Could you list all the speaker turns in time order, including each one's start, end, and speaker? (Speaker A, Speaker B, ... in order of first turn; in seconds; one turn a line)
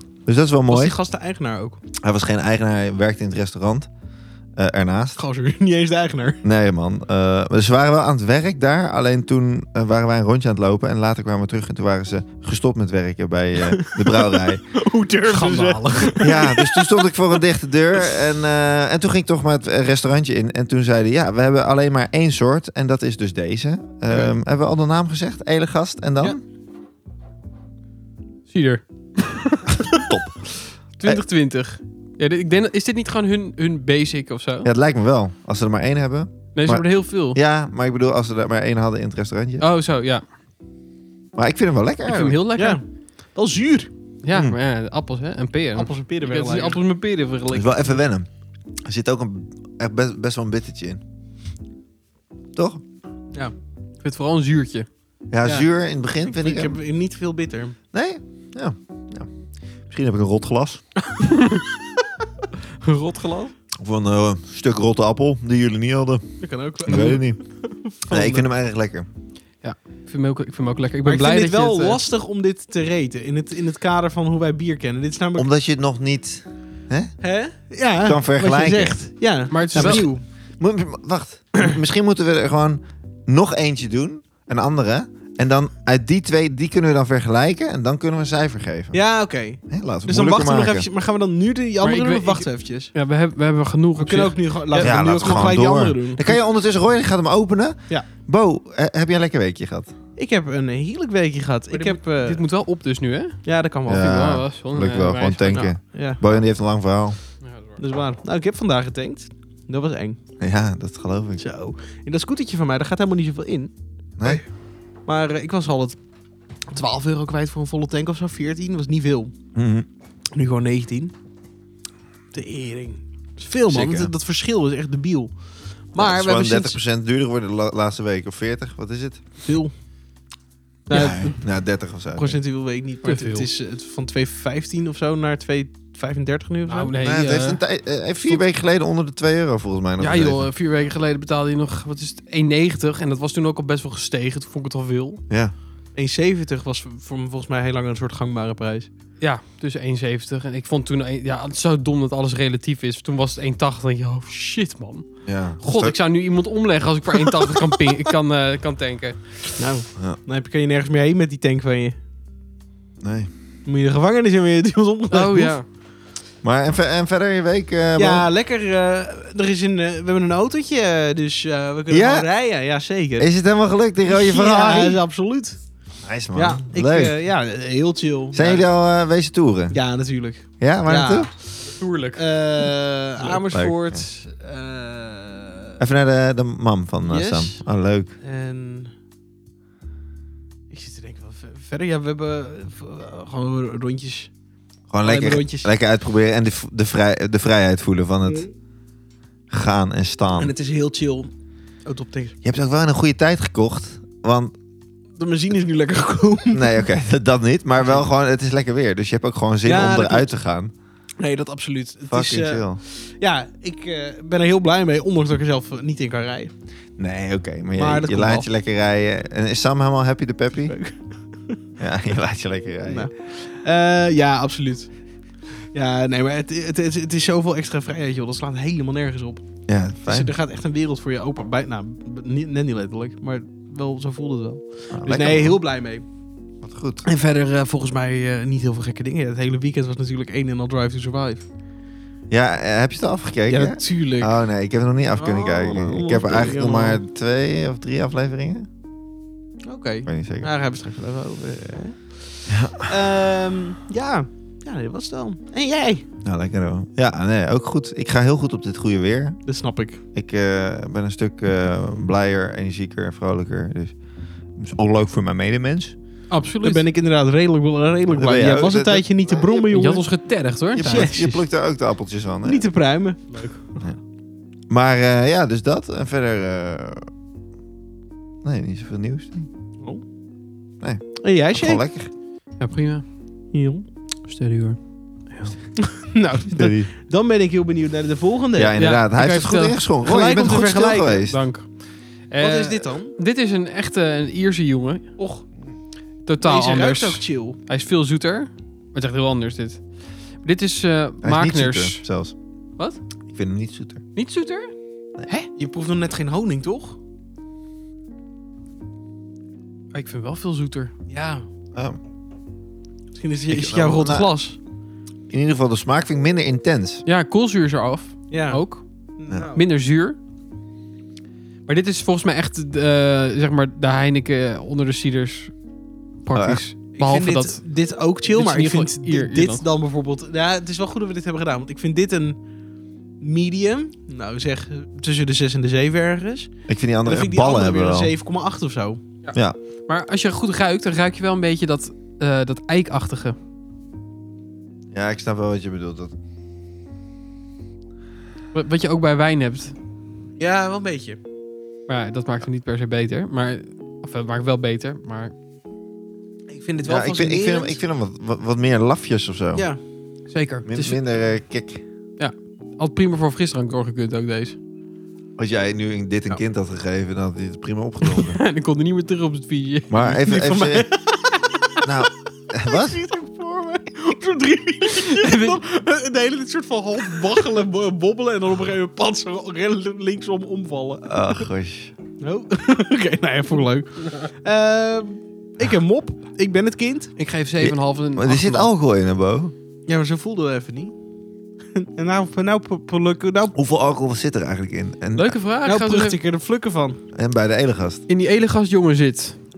Speaker A: 0.3-0.9
Speaker B: 0.7-1.8
Speaker A: 2.0-3.9
Speaker A: 4.6-5.2
Speaker B: 5.2-6.4
Speaker A: 6.4-14.6
Speaker B: 13.8-17.1
Speaker C: 15.3-16.3
Speaker A: 16.2-26.4
Speaker C: 28.5-34.7
Speaker A: 30.0-30.4
Speaker A: 34.6-39.7
Speaker C: 36.5-37.4
Speaker C: 39.6-40.2
Speaker A: 41.4-42.4
Speaker C: 42.0-42.8
Speaker B: 42.6-42.8
Speaker B: 43.3-43.9
Speaker C: 44.2-48.0
Speaker B: 45.8-46.8
Speaker A: 47.5-48.3
Speaker A: 48.8-51.0
Speaker A: 52.5-52.8
Speaker C: 54.0-54.9
Speaker A: 55.3-56.8
Speaker B: 56.3-57.8
Speaker A: 57.9-59.3
Speaker A: 59.9-60.8
Speaker B: 61.2-61.5
Speaker B: 62.8-63.5
Speaker A: 63.8-66.2
Speaker B: 66.4-68.4
Speaker A: 66.8-67.4
Speaker C: 66.9-67.2
Speaker A: 68.1-69.1
Speaker C: 69.6-72.0
Speaker B: 71.0-75.5
Speaker A: 75.4-77.1
Speaker B: 77.2-80.2
Speaker A: 78.0-79.0
Speaker C: 79.5-80.1
Speaker A: 79.7-89.0
Speaker B: 88.9-92.9
Speaker A: 89.7-90.9
Speaker C: 91.8-95.5
Speaker B: 94.0-96.4
Speaker A: 94.8-99.9
Speaker B: 100.2-102.4
Speaker C: 101.7-105.7
Speaker B: 103.5-104.1
Speaker A: 103.9-107.2
Speaker B: 105.5-106.2
Speaker C: 107.4-107.8
Speaker B: 107.8-110.2
Speaker A: 110.4-111.4
Speaker B: 111.4-113.7
Speaker A: 114.2-114.4
Speaker B: 115.1-116.0
Speaker B: 116.7-119.3
Speaker A: 119.5-119.9
Speaker B: 120.3-121.1
Speaker B: 122.3-126.8
Speaker A: 123.7-124.1
Speaker A: 126.0-129.2
Speaker B: 129.4-129.7
Speaker B: 130.9-131.4
Speaker A: 130.9-132.4
Speaker B: 132.2-136.9
Speaker C: 133.0-133.5
Speaker C: 136.7-137.6
Speaker A: 137.0-140.5
Speaker C: 140.0-145.2
Speaker B: 146.0-148.9
Speaker C: 149.2-155.1
Speaker A: 155.3-156.0
Speaker C: 155.6-159.4
Speaker B: 159.6-162.0
Speaker A: 163.0-163.3
Speaker B: 163.7-165.6
Speaker C: 165.1-165.7
Speaker A: 166.4-168.3
Speaker B: 168.0-173.3
Speaker A: 171.9-172.3
Speaker A: 173.2-175.0
Speaker B: 174.1-175.6
Speaker A: 176.0-177.2
Speaker B: 176.3-178.7
Speaker A: 178.3-179.8
Speaker B: 179.7-185.8
Speaker A: 180.6-181.3
Speaker C: 181.7-182.7
Speaker A: 183.5-184.1
Speaker A: 185.8-188.1
Speaker B: 187.1-187.6
Speaker B: 188.2-188.9
Speaker B: 190.7-194.3
Speaker A: 194.9-198.5
Speaker B: 195.0-195.7
Speaker B: 198.2-198.5
Speaker A: 199.5-200.5
Speaker B: 200.4-201.3
Speaker B: 201.9-202.4
Speaker A: 202.4-204.5
Speaker B: 205.2-206.8
Speaker A: 206.5-210.7
Speaker B: 209.6-210.3
Speaker B: 211.2-216.5
Speaker A: 212.1-212.8
Speaker A: 217.0-220.8
Speaker B: 217.8-218.5
Speaker B: 220.6-221.6
Speaker A: 221.8-223.1
Speaker B: 222.9-224.9
Speaker B: 225.7-229.4
Speaker A: 229.7-230.3
Speaker B: 230.1-236.1
Speaker A: 234.9-235.6
Speaker A: 236.6-237.1
Speaker B: 237.0-241.5
Speaker A: 242.3-248.7
Speaker B: 243.5-244.4
Speaker B: 245.2-247.0
Speaker B: 249.7-256.1
Speaker A: 250.1-250.5
Speaker A: 252.5-252.9
Speaker A: 256.2-259.4
Speaker B: 259.4-260.0
Speaker A: 260.1-264.0
Speaker A: 264.6-265.9
Speaker C: 266.3-266.8
Speaker B: 266.3-270.1
Speaker A: 268.1-269.4
Speaker C: 269.7-271.2
Speaker A: 270.7-272.7
Speaker B: 270.8-271.4
Speaker B: 272.4-273.6
Speaker C: 273.3-273.6
Speaker A: 274.7-277.1
Speaker A: 278.4-279.5
Speaker A: 280.8-282.1
Speaker B: 281.2-281.8
Speaker C: 282.6-283.0
Speaker B: 283.5-283.9
Speaker C: 284.3-284.8
Speaker B: 285.8-288.8
Speaker A: 286.6-286.9
Speaker A: 288.6-291.4
Speaker C: 288.8-291.7
Speaker B: 290.0-291.2
Speaker C: 292.3-295.1
Speaker B: 292.4-293.2
Speaker B: 295.2-295.4
Speaker C: 296.3-299.9
Speaker B: 296.4-297.6
Speaker C: 300.4-302.0
Speaker A: 301.2-302.3
Speaker A: 303.3-304.0
Speaker C: 304.1-304.7
Speaker B: 305.3-307.0
Speaker C: 309.9-310.9
Speaker B: 311.1-311.5
Speaker B: 313.1-314.6
Speaker A: 313.5-314.3
Speaker A: 315.3-317.0
Speaker C: 317.1-318.9
Speaker B: 318.3-318.6
Speaker B: 319.2-319.6
Speaker C: 319.5-320.2
Speaker C: 321.7-325.5
Speaker C: 326.2-327.6
Speaker A: 326.3-326.6
Speaker B: 326.9-332.4
Speaker C: 328.3-329.6
Speaker B: 333.2-336.5
Speaker A: 336.7-338.1
Speaker B: 337.1-339.0
Speaker C: 339.9-343.4
Speaker A: 344.9-346.1
Speaker C: 348.5-349.8
Speaker B: 350.4-351.2
Speaker C: 351.9-355.3
Speaker B: 356.5-357.8
Speaker A: 356.8-359.7
Speaker B: 359.5-359.8
Speaker C: 360.3-361.0
Speaker A: 360.7-361.8
Speaker C: 362.2-364.6
Speaker A: 365.4-368.4
Speaker C: 368.1-370.2
Speaker A: 369.9-370.9
Speaker B: 370.1-371.9
Speaker A: 371.8-373.0
Speaker B: 372.6-381.1
Speaker C: 374.9-375.6
Speaker A: 381.1-381.9
Speaker B: 382.2-387.1
Speaker C: 387.2-388.7
Speaker A: 387.6-389.5
Speaker B: 389.9-390.9
Speaker B: 391.8-393.6
Speaker A: 393.6-395.4
Speaker C: 395.2-396.2
Speaker B: 395.6-397.0
Speaker A: 397.1-398.0
Speaker C: 398.1-399.4